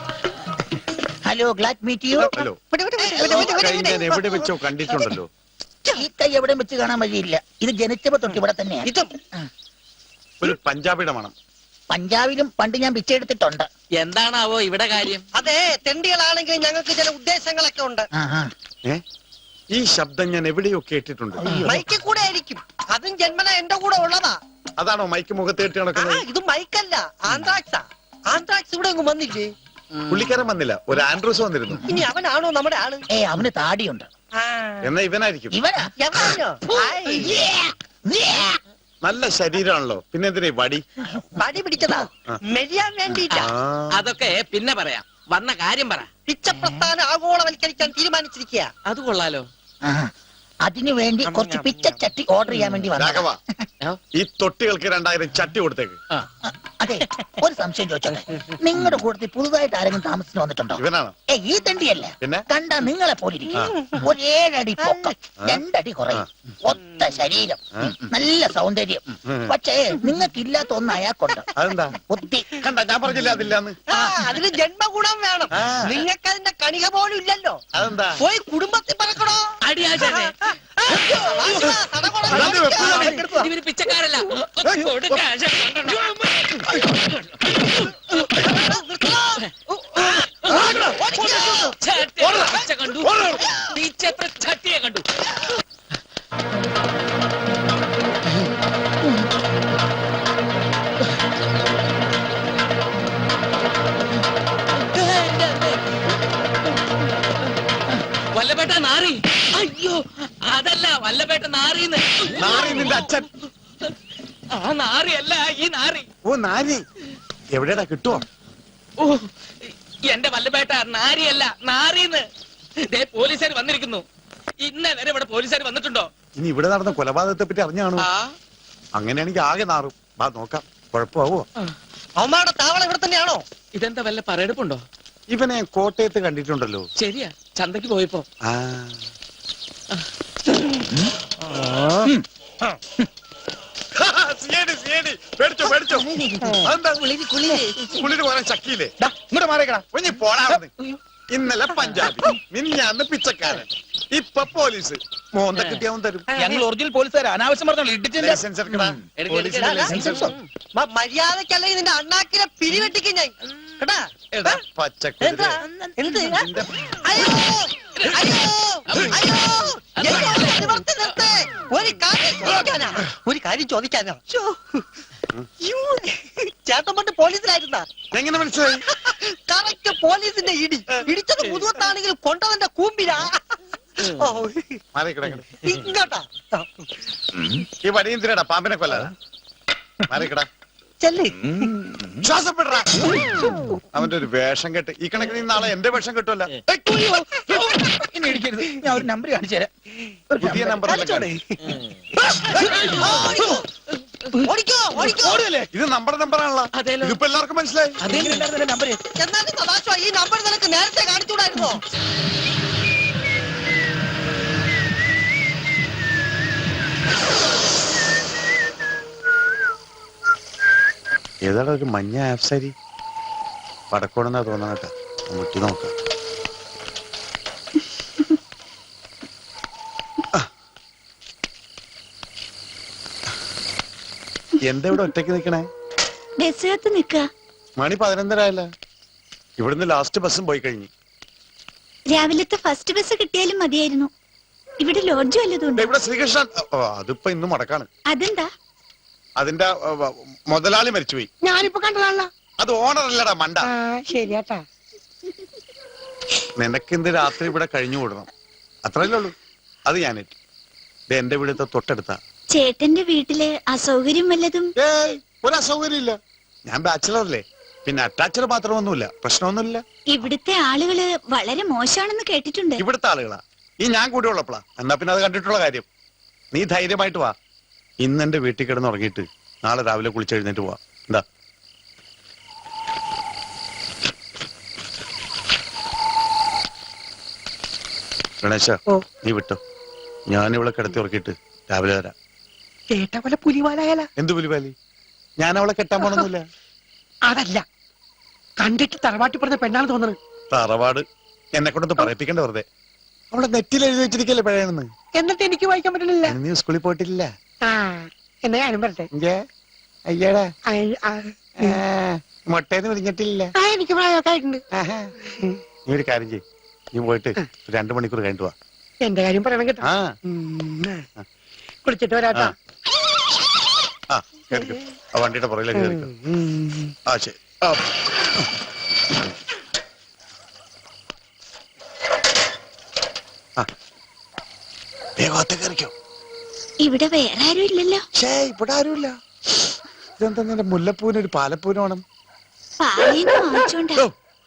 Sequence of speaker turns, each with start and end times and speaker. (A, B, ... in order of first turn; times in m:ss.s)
0:01.2-0:02.3 A
0:02.2-0:02.6 B
0:02.7-0:04.4 C
0:03.2-0:05.3 B
0:03.2-0:03.6 A
0:05.9-0:08.9 A
0:08.3-0:09.1 C
0:10.4-0:11.3 B
0:11.9-0:13.7 A
0:14.0-0:15.2 D
0:15.3-0:18.1 C
0:18.1-0:18.5 A
0:19.7-0:21.4 B
0:21.4-0:21.8 A
0:21.6-0:24.4 C
0:24.8-0:26.2 B
0:25.9-0:29.5 C
0:30.1-0:31.8 B
0:31.8-0:33.0 C
0:33.1-0:34.1 A
0:34.4-0:34.8 C
0:34.8-0:35.6 B
0:35.5-0:35.9 A
0:36.0-0:37.3 C
0:36.7-0:38.6 A
0:39.0-0:40.8 B
0:41.4-0:43.5 C
0:43.3-0:46.1 D
0:43.4-0:44.0 B
0:46.3-0:48.7 C
0:48.8-0:49.5 D
0:49.8-0:50.1 A
0:50.6-0:53.6 A
0:51.2-0:52.0 C
0:53.0-0:53.4 B
0:54.1-0:56.0 B
0:56.4-1:12.5 A
1:00.8-1:01.1 B
1:03.6-1:03.8 B
1:03.6-1:04.0 C
1:04.8-1:05.1 C
1:09.3-1:09.5 B
1:11.6-1:12.0 B
1:12.6-1:13.8 B
1:13.9-1:17.6 C
1:15.5-1:16.0 B
1:17.7-1:18.2 B
1:18.2-1:23.4 C
1:19.6-1:20.3 D
1:22.3-1:23.2 B
1:22.8-1:28.2 D
1:23.0-1:23.3 E
1:24.6-1:25.2 B
1:25.7-1:26.0 C
1:28.4-1:31.8 C
1:30.4-1:30.7 D
1:31.8-1:35.0 D
1:32.2-1:33.4 B
1:44.8-1:45.8 D
1:48.3-1:53.1 D
1:52.4-1:53.3 B
1:54.5-1:56.1 D
1:56.2-1:56.8 B
1:57.5-1:58.2 B
1:59.0-2:02.3 D
2:02.9-2:04.0 D
2:04.6-2:06.1 D
2:06.4-2:08.1 B
2:08.0-2:08.3 D
2:09.0-2:11.5 B
2:12.2-2:13.4 C
2:13.7-2:14.8 D
2:15.3-2:16.9 B
2:17.0-2:18.2 D
2:18.4-2:19.0 B
2:21.5-2:22.1 C
2:23.9-2:27.3 B
2:26.1-2:26.7 C
2:27.8-2:28.9 B
2:29.0-2:29.8 E
2:29.9-2:30.7 B
2:31.3-2:36.3 B
2:35.5-2:35.8 D
2:36.3-2:36.6 C
2:36.4-2:39.0 E
2:38.2-2:40.2 B
2:39.2-2:40.3 D
2:39.5-2:44.6 C
2:39.9-2:40.3 E
2:44.7-2:45.6 B
2:45.2-2:46.5 C
2:46.3-2:47.2 B
2:47.0-2:54.3 C
2:48.0-2:50.8 D
2:55.6-2:57.9 C
2:58.1-2:58.9 B
2:58.8-3:04.8 C
3:04.9-3:05.8 B
3:05.6-3:06.9 C
3:07.8-3:09.1 B
3:10.1-3:10.5 B
3:11.0-3:11.7 C
3:11.4-3:12.2 E
3:12.2-3:13.1 B
3:13.9-3:16.6 B
3:16.7-3:19.7 E
3:20.3-3:21.3 E
3:20.4-3:21.3 B
3:20.8-3:21.7 C
3:22.3-3:23.6 E
3:22.6-3:23.6 C
3:24.4-3:25.4 C
3:25.0-3:25.7 E
3:25.7-3:28.0 B
3:26.7-3:27.2 D
3:28.0-3:28.4 D
3:28.0-3:29.0 E
3:29.2-3:31.8 C
3:41.4-3:42.7 B
3:43.9-3:45.9 B
3:54.6-3:55.7 B
3:56.4-3:57.3 F
3:57.8-3:58.7 B
3:59.6-4:00.9 B
4:02.1-4:04.1 F
4:04.8-4:05.9 F
4:05.8-4:07.9 B
4:08.1-4:08.5 F
4:09.4-4:11.3 B
4:11.4-4:12.3 G
4:12.6-4:13.7 B
4:13.6-4:14.6 G
4:16.6-4:18.3 B
4:18.8-4:19.4 B
4:19.9-4:20.4 B
4:21.1-4:22.2 B
4:22.5-4:24.7 F
4:24.8-4:29.8 B
4:30.1-4:32.8 F
4:32.8-4:35.9 B
4:36.5-4:37.4 B
4:38.0-4:41.2 B
4:48.4-4:49.6 B
4:50.3-4:52.1 B
4:52.9-4:54.1 G
4:54.2-4:54.7 B
4:55.4-4:56.5 B
4:57.3-4:57.6 G
4:58.6-5:00.2 G
5:00.5-5:02.6 B
5:03.3-5:04.9 B
5:05.1-5:06.4 G
5:06.2-5:07.3 B
5:07.6-5:09.1 G
5:09.1-5:09.4 B
5:10.1-5:10.5 B
5:10.7-5:11.8 G
5:11.6-5:13.5 B
5:13.6-5:14.6 G
5:14.7-5:15.1 B
5:15.9-5:16.4 B
5:16.9-5:18.5 B
5:19.0-5:21.0 G
5:19.8-5:20.1 B
5:21.8-5:22.5 G
5:24.1-5:26.1 B
5:25.7-5:26.9 G
5:27.1-5:27.9 B
5:35.2-5:35.9 B
5:36.8-5:38.0 F
5:38.2-5:39.2 B
5:40.2-5:42.0 B
5:42.8-5:44.0 F